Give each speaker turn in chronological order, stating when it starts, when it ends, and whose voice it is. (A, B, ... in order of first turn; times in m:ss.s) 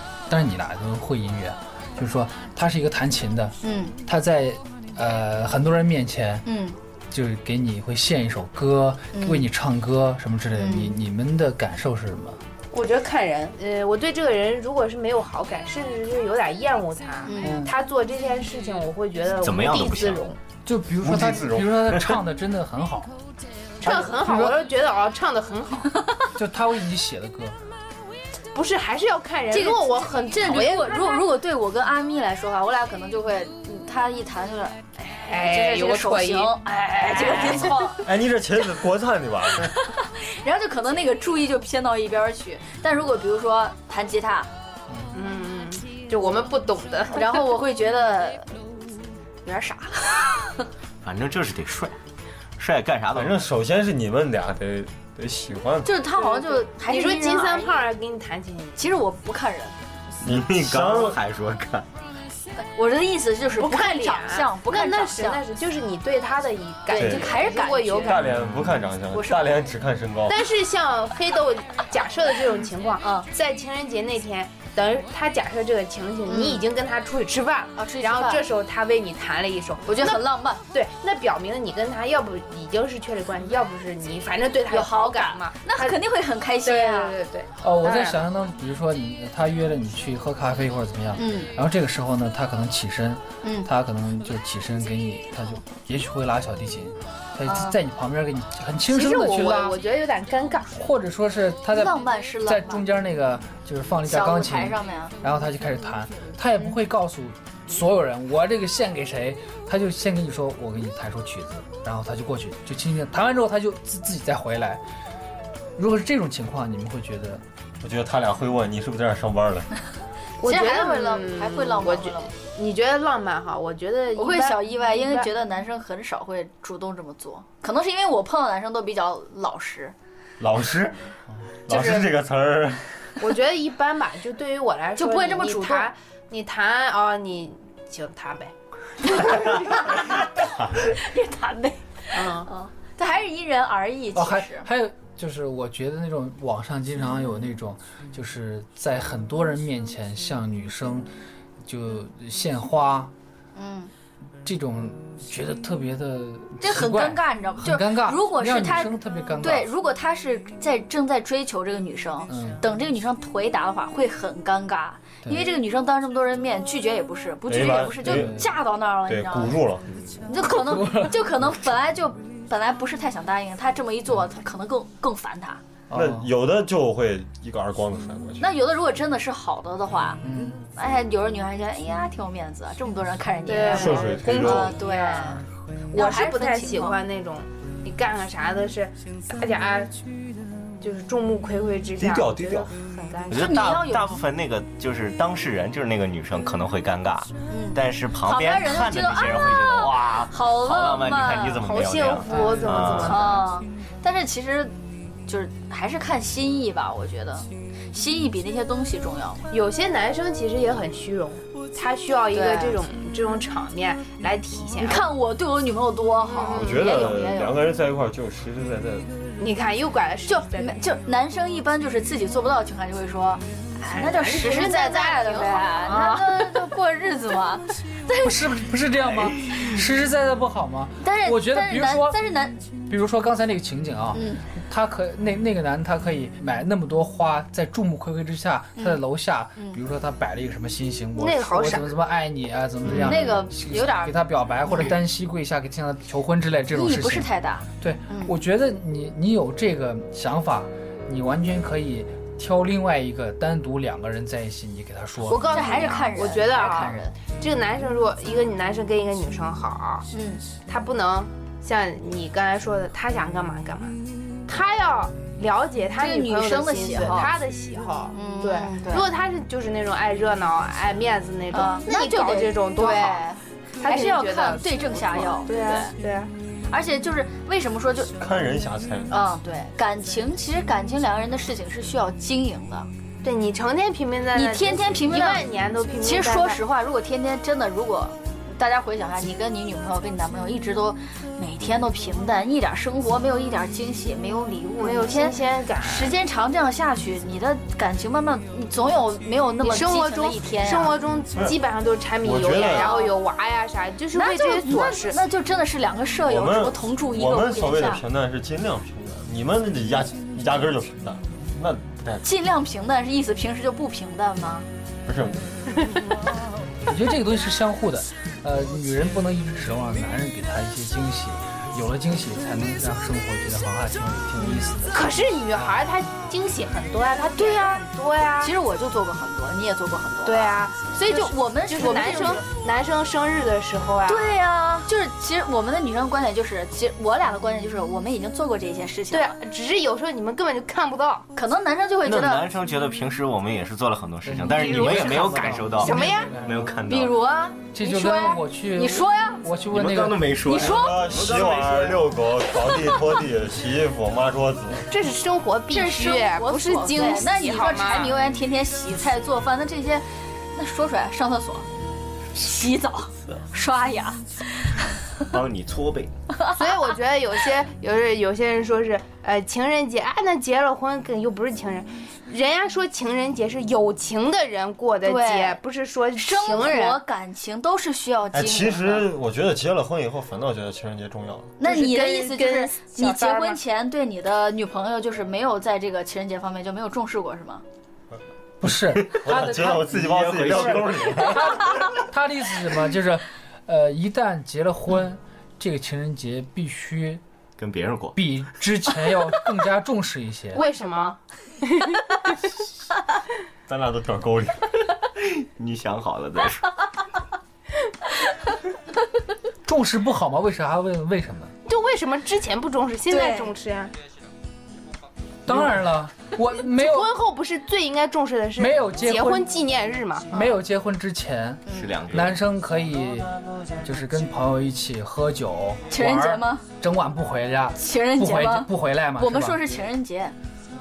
0:00.3-0:06.5 A
0:03.6-0:04.0 B
0:06.5-0:06.8 B
0:07.1-0:12.4 A
0:09.1-0:09.5 B
0:10.6-0:11.0 B
0:12.7-0:20.4 C
0:17.2-0:17.6 B
0:17.4-0:17.7 A
0:19.4-0:20.2 D
0:20.7-0:23.1 A
0:21.0-0:21.7 E
0:23.8-0:24.6 A
0:23.8-0:25.9 C
0:26.4-0:27.6 A
0:28.5-0:31.2 C
0:29.5-0:38.0 B
0:35.3-0:37.9 C
0:38.0-0:39.8 E
0:39.6-0:44.5 B
0:44.9-0:45.1 A
0:45.1-0:47.4 C
0:47.1-0:48.6 B
0:49.4-0:50.6 B
0:51.0-0:52.0 D
0:52.6-0:53.4 D
0:53.1-0:55.9 E
0:55.8-0:57.8 B
0:56.1-0:58.8 C
0:58.8-0:59.8 B
1:00.2-1:01.2 E
1:00.2-1:01.9 D
1:02.6-1:05.4 B
1:03.6-1:08.4 C
1:06.9-1:08.3 B
1:06.9-1:07.4 E
1:08.0-1:10.4 E
1:09.1-1:09.6 B
1:10.3-1:26.0 C
1:13.0-1:13.3 B
1:16.3-1:16.6 B
1:17.8-1:18.5 B
1:19.9-1:20.6 B
1:24.7-1:27.2 B
1:26.6-1:28.2 C
1:27.6-1:39.8 A
1:31.2-1:31.5 B
1:33.4-1:33.7 B
1:37.4-1:37.8 B
1:38.9-1:40.7 C
1:40.7-1:54.8 A
1:41.7-1:42.8 B
1:44.1-1:45.2 B
1:55.8-1:57.4 A
1:57.8-1:59.7 E
2:00.4-2:05.3 C
2:00.4-2:02.3 B
2:04.2-2:10.0 B
2:10.4-2:11.0 E
2:11.7-2:13.1 E
2:11.7-2:12.1 B
2:13.2-2:18.5 C
2:15.0-2:15.9 B
2:19.0-2:20.3 B
2:19.1-2:19.9 C
2:20.8-2:24.7 B
2:22.1-2:22.5 C
2:24.1-2:31.1 A
2:31.6-2:33.1 A
2:33.6-2:33.9 B
2:34.4-2:39.7 A
2:36.6-2:49.6 B
2:42.3-2:42.6 A
2:47.5-2:48.4 E
2:48.0-2:48.4 A
2:49.1-2:49.9 E
2:50.3-2:55.6 B
2:50.5-2:51.2 A
2:55.9-2:56.3 A
2:55.9-2:58.5 E
2:58.4-3:07.0 B
3:00.2-3:00.6 A
3:03.5-3:10.0 C
3:03.7-3:04.8 E
3:10.8-3:13.4 C
3:12.0-3:12.7 E
3:13.3-3:23.3 D
3:13.3-3:14.1 B
3:17.5-3:21.6 B
3:21.6-3:23.5 C
3:22.3-3:24.8 B
3:25.3-3:29.4 B
3:29.5-3:35.1 C
3:32.3-3:32.8 B
3:34.8-3:37.6 B
3:36.3-3:36.9 C
3:36.5-3:39.1 E
3:39.4-3:40.8 C
3:40.3-3:48.3 B
3:43.9-3:46.7 C
3:48.2-3:52.2 A
3:51.0-3:52.6 B
3:52.9-4:15.6 A
3:54.1-3:54.5 B
3:58.8-3:59.0 B
4:01.2-4:01.9 C
4:02.9-4:04.9 B
4:06.7-4:08.4 B
4:15.3-4:20.1 C
4:15.3-4:17.2 B
4:20.1-4:20.4 B
4:20.7-4:36.3 C
4:26.0-4:27.3 B
4:28.1-4:29.1 B
4:31.5-4:36.0 B
4:36.7-4:38.1 B
4:38.2-4:39.1 E
4:39.1-4:42.9 B
4:43.2-4:46.6 C
4:44.3-4:45.4 B
4:46.0-5:01.0 B
4:54.8-4:56.1 C
4:59.6-5:05.2 C
5:02.2-5:02.9 E
5:02.7-5:03.1 B
5:04.1-5:08.0 B
5:06.3-5:12.3 E
5:12.2-5:14.7 B
5:15.1-5:15.5 E
5:16.8-5:25.8 A
5:24.4-5:24.7 B
5:24.9-5:28.5 C
5:27.4-5:27.8 B
5:28.4-5:32.4 B
5:30.2-5:34.4 C
5:34.1-5:39.4 B
5:39.1-5:41.3 C
5:41.4-5:42.5 B
5:42.1-5:47.2 D
5:44.2-5:46.8 A
5:45.8-5:46.3 C
5:46.9-5:49.4 B
5:47.7-5:50.4 A
5:49.7-5:52.0 D
5:50.5-5:51.1 B
5:50.5-5:54.9 E
5:54.9-5:58.2 C
5:55.7-6:01.7 B
6:02.3-6:04.8 B
6:05.3-6:06.1 D
6:06.3-6:06.6 B
6:06.5-6:17.0 C
6:15.0-6:15.6 B
6:16.2-6:19.1 B
6:18.3-6:21.5 E
6:21.6-6:27.6 B
6:21.6-6:23.6 C
6:28.6-6:37.2 A
6:29.1-6:31.8 E
6:29.9-6:31.4 D
6:37.6-6:38.2 D
6:38.2-6:40.7 A
6:40.5-6:42.0 C
6:43.7-6:44.6 E
6:45.3-6:46.7 D
6:49.6-6:51.5 A
6:51.7-6:53.9 C
6:53.1-6:53.5 B
6:55.5-6:57.1 A
6:56.8-7:00.4 C
6:58.6-6:59.5 A
7:00.3-7:09.6 A
7:01.7-7:02.4 D
7:05.9-7:06.6 B
7:07.8-7:10.4 B